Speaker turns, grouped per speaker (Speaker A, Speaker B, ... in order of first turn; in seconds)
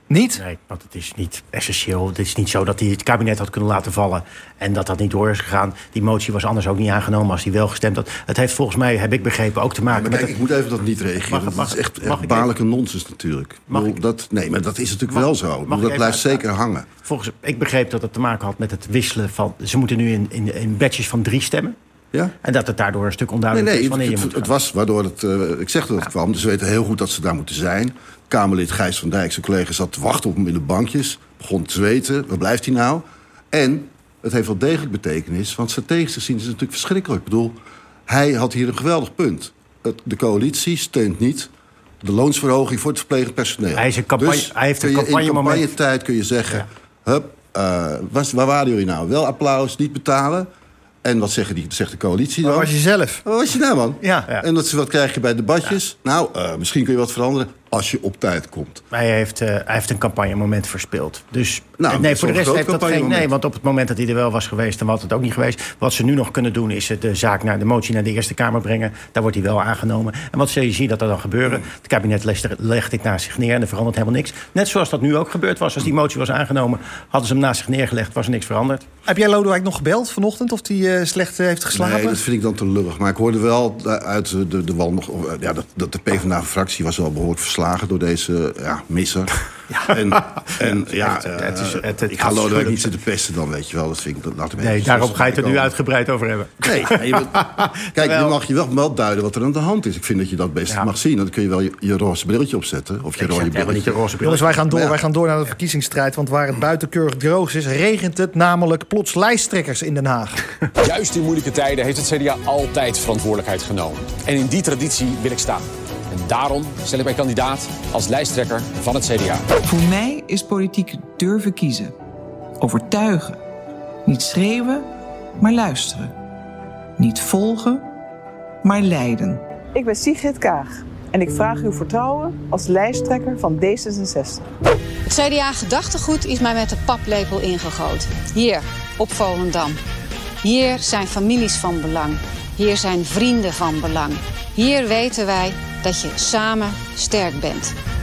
Speaker A: 0.1-0.4, 52.4-53.2, 54.0-54.3, 79.0-82.2, 104.2-110.4
Speaker B: 0.4-10.3, 11.3-12.5, 13.7-14.0, 15.1-16.4, 17.0-21.8, 22.4-24.5, 43.8-45.7, 58.9-78.8, 90.3-92.9, 94.6-98.4, 103.2-104.6
Speaker C: 9.9-16.9, 23.5-37.5, 38.1-41.5, 42.0-50.5, 51.0-52.7, 53.2-58.8, 61.8-63.3, 81.7-95.7, 96.6-104.0, 104.7-105.0
Speaker D: 110.8-119.4
Speaker E: 119.6-121.9, 122.6-123.4, 124.0-126.1, 127.0-127.8, 128.6-129.4
Speaker F: 129.7-134.4
Speaker G: 135.1-139.8, 140.4-147.7